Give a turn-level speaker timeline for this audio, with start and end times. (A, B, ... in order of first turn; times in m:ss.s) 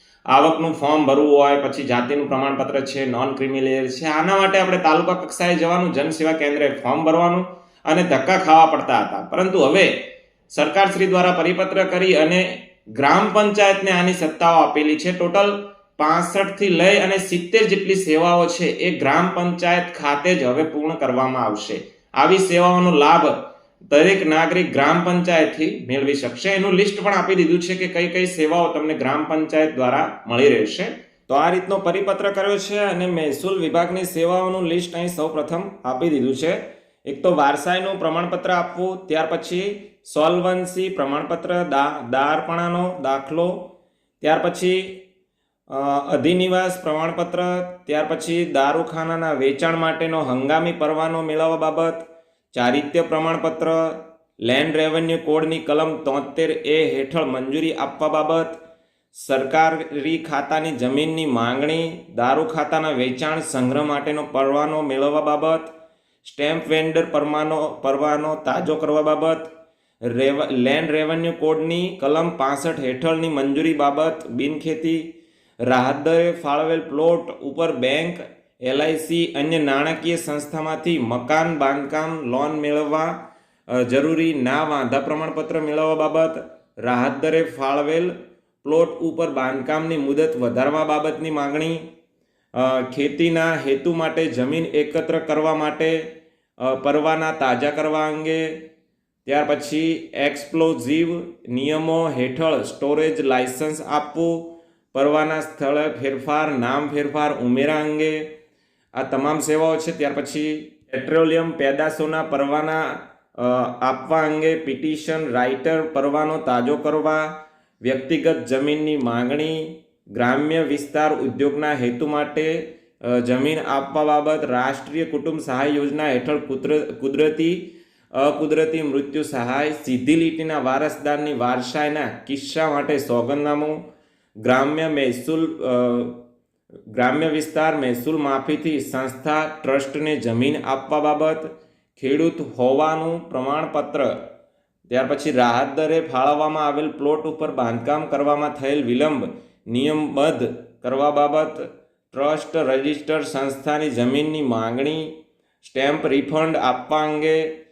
0:00.3-0:09.9 A
0:10.5-0:23.4 A
0:23.9-0:45.0 A
0:45.7-0:58.6 A
0:59.1-1:05.7 A
1:06.2-1:09.5 A
1:10.0-1:15.1 A
1:15.6-1:23.1 A
1:23.7-1:31.8 A
1:32.5-1:36.1 A
1:36.6-1:38.6 A
1:39.2-1:48.2 A
1:48.9-2:13.8 A
2:14.4-2:16.2 A
2:16.9-2:24.2 A
2:24.9-2:37.5 A